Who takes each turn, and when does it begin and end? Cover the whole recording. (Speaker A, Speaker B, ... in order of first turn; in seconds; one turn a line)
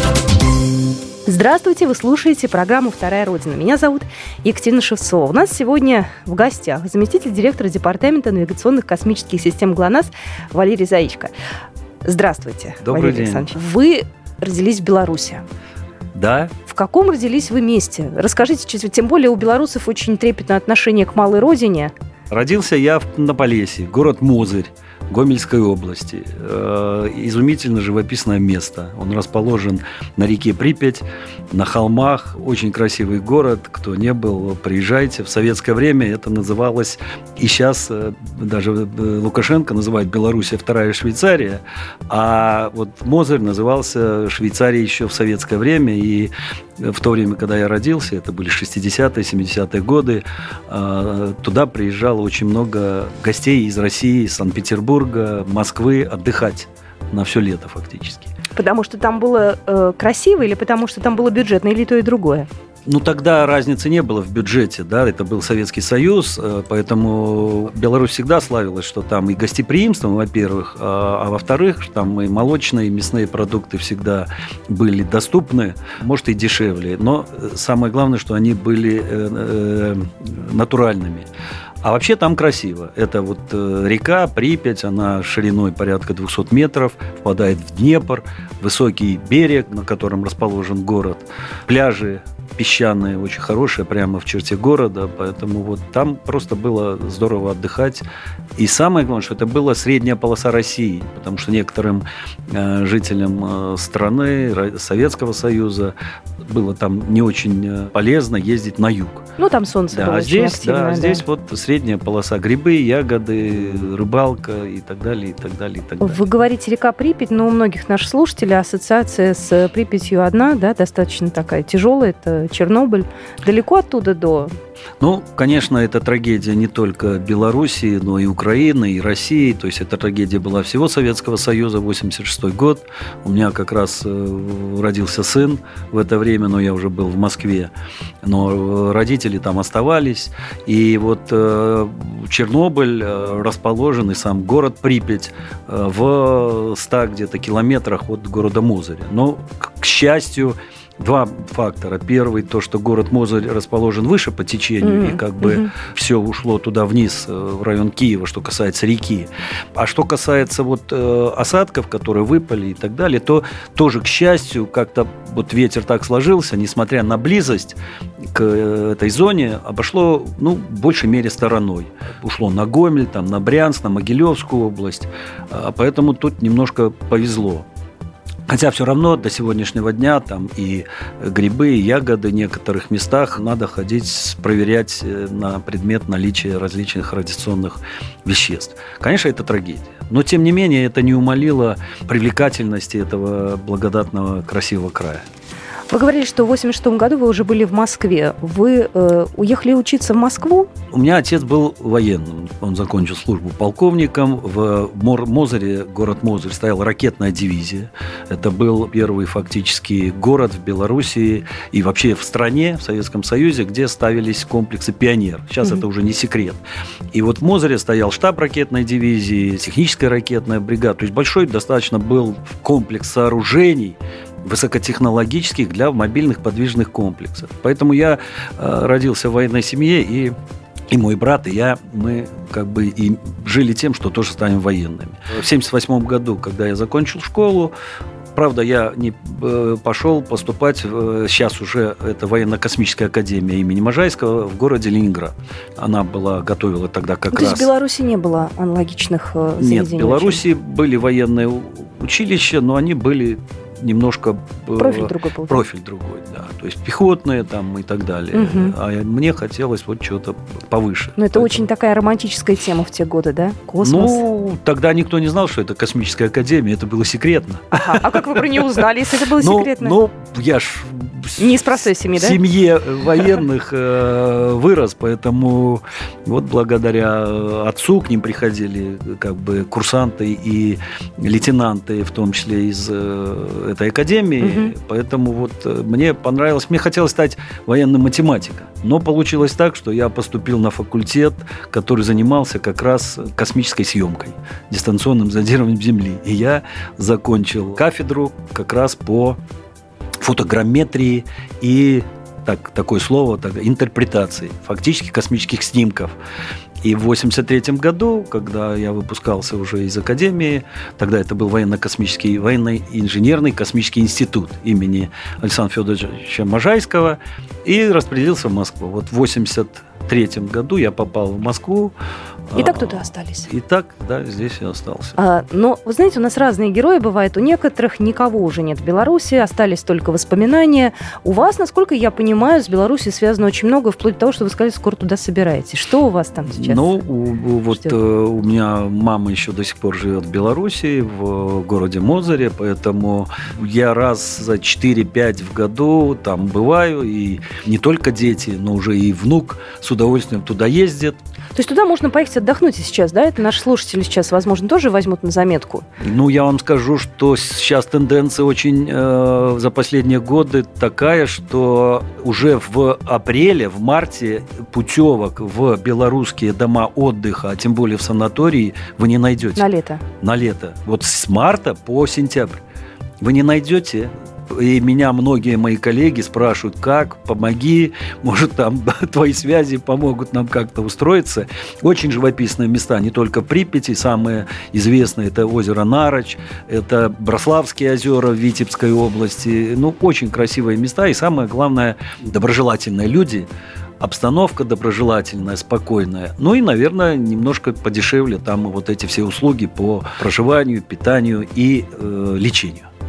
Speaker A: 1.3-11.3
Speaker A: 12.1-15.4
Speaker B: 12.8-13.5
Speaker B: 16.1-16.6
Speaker A: 16.6-21.9
Speaker B: 22.3-58.3
Speaker A: 58.6-62.5
Speaker B: 62.9-81.3
Speaker B: 81.8-98.1
Speaker B: 98.6-109.3
Speaker A: 109.4-111.2
Speaker B: 109.9-116.3
Speaker A: 116.0-124.5
Speaker B: 125.0-137.7
Speaker B: 138.2-167.8
Speaker A: 154.8-155.7
Speaker B: 168.3-177.7
Speaker B: 178.5-195.2
Speaker A: 195.9-200.7
Speaker B: 200.9-216.6
Speaker B: 217.1-230.3
Speaker B: 230.9-237.7
Speaker B: 238.3-247.7
Speaker A: 247.3-250.4
Speaker B: 249.6-261.7
Speaker A: 254.8-255.6
Speaker A: 258.3-258.8
Speaker A: 261.2-264.2
Speaker B: 263.8-268.8
Speaker A: 267.7-270.0
Speaker B: 269.4-299.4
Speaker A: 271.4-272.4
Speaker A: 284.4-284.7
Speaker B: 300.2-306.2
Speaker B: 306.8-321.9
Speaker B: 322.5-325.2
Speaker A: 322.6-323.5
Speaker A: 325.2-336.9
Speaker B: 336.5-351.2
Speaker A: 351.6-355.9
Speaker B: 356.0-369.7
Speaker A: 369.6-370.0
Speaker B: 370.2-372.6
Speaker B: 373.2-393.5
Speaker B: 394.0-402.9